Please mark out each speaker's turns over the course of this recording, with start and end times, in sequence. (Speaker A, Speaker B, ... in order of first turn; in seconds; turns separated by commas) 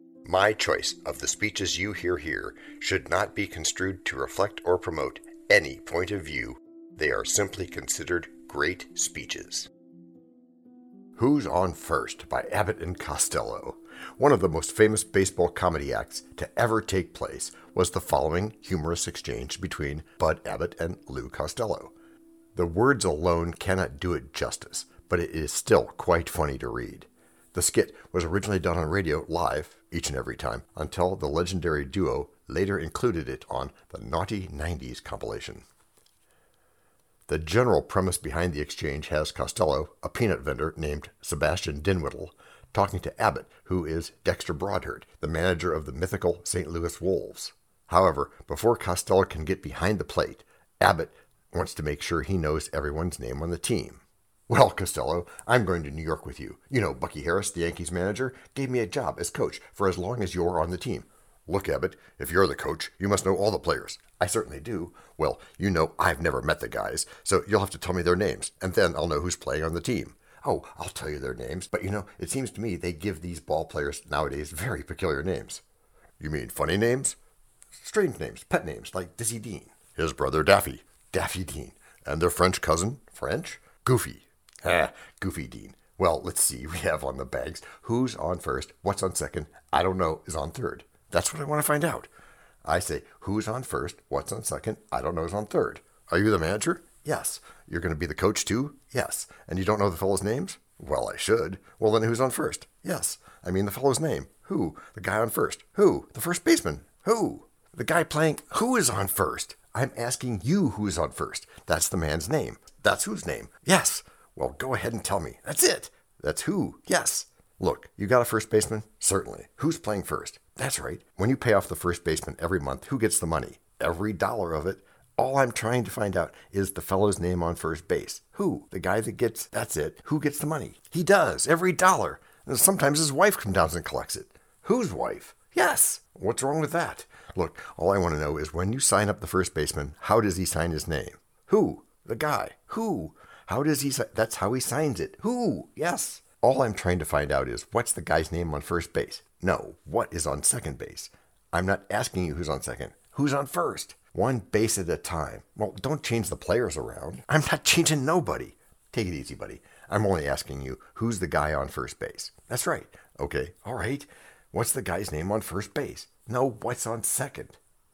Speaker A: 0.2-9.7, Speaker A: 11.2-21.9, Speaker A: 22.6-35.6, Speaker A: 37.3-75.6, Speaker A: 76.2-77.2, Speaker A: 77.7-92.1, Speaker A: 92.7-167.6